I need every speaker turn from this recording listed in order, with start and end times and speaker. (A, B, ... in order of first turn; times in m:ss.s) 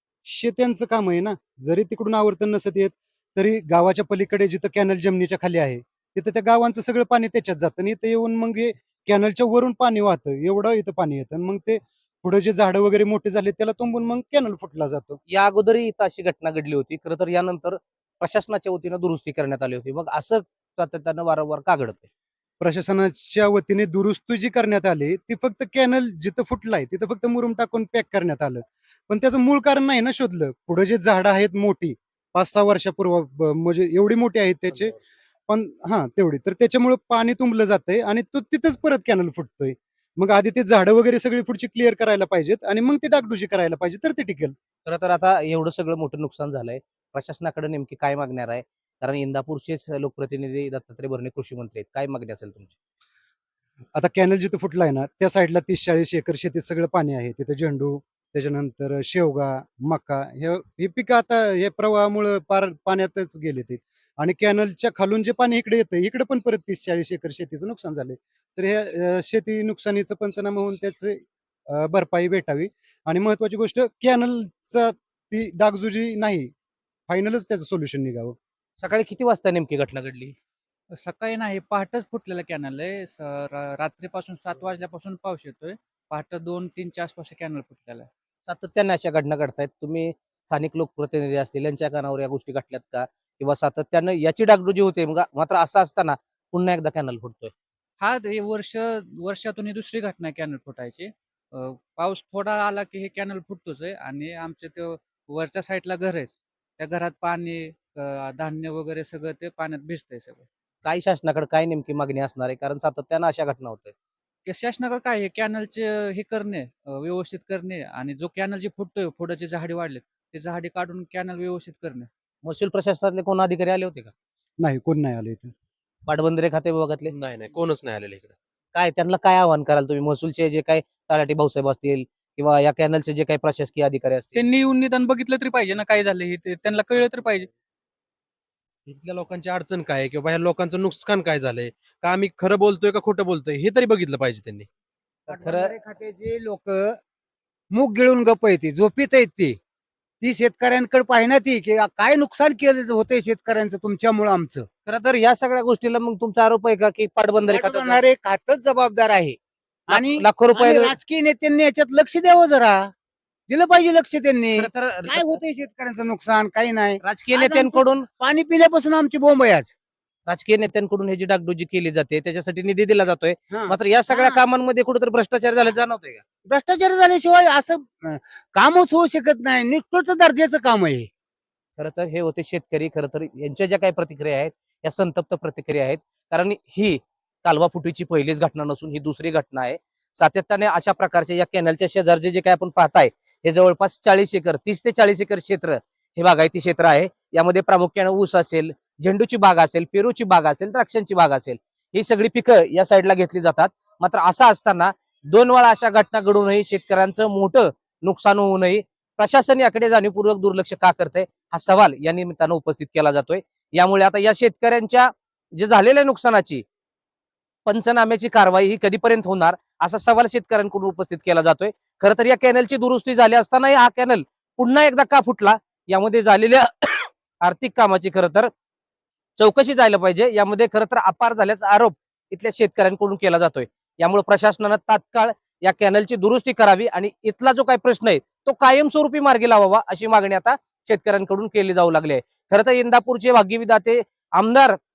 0:00.2-0:15.2 A
0:15.3-0:22.1 B
0:22.6-0:34.9 A
0:35.5-0:44.5 A
0:44.8-0:52.7 B
0:54.0-1:16.5 A
1:17.1-1:18.4 A
1:18.8-1:20.4 B
1:20.9-1:28.1 C
1:28.4-1:37.5 B
1:38.0-1:50.5 C
1:50.8-1:53.9 B
1:54.4-2:02.1 C
2:02.4-2:04.1 B
2:04.6-2:05.5 A
2:06.1-2:07.1 B
2:07.1-2:08.4 D
2:08.7-2:14.4 B
2:14.3-2:17.5 C
2:18.9-2:24.7 D
2:25.3-2:25.7 B
2:25.3-2:27.0 E
2:27.7-2:29.6 E
2:30.2-2:34.7 E
2:34.8-2:38.0 B
2:37.4-2:39.4 E
2:39.9-2:42.9 E
2:39.9-2:40.9 B
2:43.5-2:49.7 E
2:44.6-2:45.4 B
2:47.0-2:48.1 B
2:50.3-2:56.2 B
2:53.5-2:54.4 E
2:56.5-3:01.1 E
3:01.8-3:36.6 B
3:37.6-3:48.5 B
3:49.4-4:04.8 B